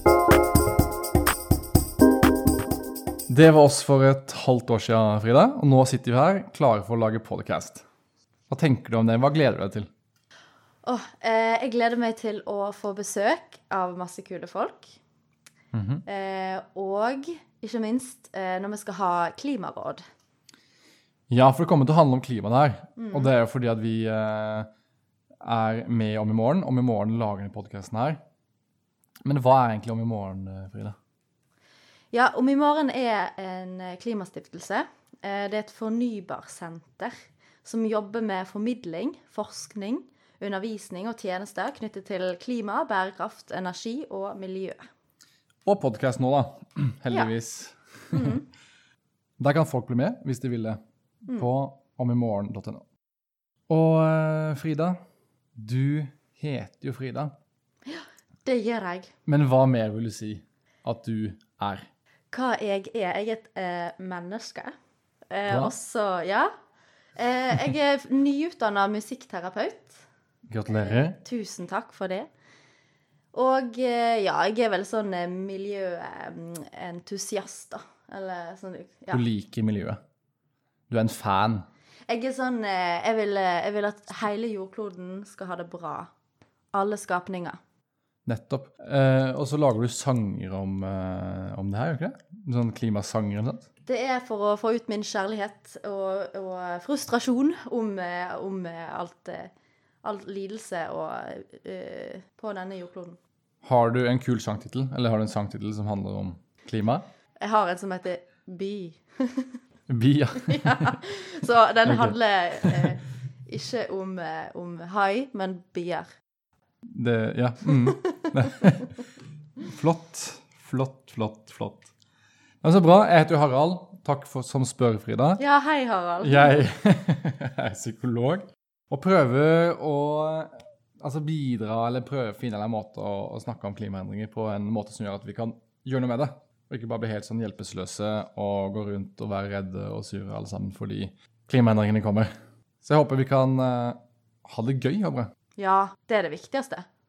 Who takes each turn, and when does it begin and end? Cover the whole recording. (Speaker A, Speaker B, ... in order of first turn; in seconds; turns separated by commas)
Speaker A: 3.3-7.8, Speaker A: 8.5-9.9, Speaker B: 10.8-15.0, Speaker A: 15.7-16.0, Speaker B: 16.1-20.0, Speaker A: 21.3-24.7, Speaker B: 23.0-23.3, Speaker A: 25.4-28.2, Speaker A: 29.2-30.9, Speaker B: 32.1-44.8, Speaker A: 45.7-48.4, Speaker B: 48.1-48.4, Speaker A: 49.4-52.8, Speaker A: 53.7-55.0, Speaker A: 55.6-57.3, Speaker B: 57.9-59.1, Speaker A: 59.2-61.9, Speaker B: 62.3-64.7, Speaker B: 65.3-66.5, Speaker A: 65.5-65.7, Speaker B: 67.2-70.0, Speaker A: 70.5-71.2, Speaker B: 70.7-72.3, Speaker B: 73.3-79.2, Speaker A: 79.1-80.0, Speaker A: 80.9-81.7, Speaker B: 82.1-86.1, Speaker B: 86.7-87.6, Speaker A: 88.2-93.7, Speaker B: 93.9-99.5, Speaker B: 100.0-103.2, Speaker A: 103.6-107.1, Speaker B: 107.4-109.5, Speaker A: 109.9-111.0, Speaker B: 110.4-116.1, Speaker A: 111.8-112.9, Speaker A: 116.9-118.9, Speaker B: 117.9-118.6, Speaker A: 119.6-121.9, Speaker A: 122.6-125.4, Speaker B: 125.4-126.6, Speaker A: 126.2-142.3, Speaker A: 142.8-145.3, Speaker B: 145.6-146.9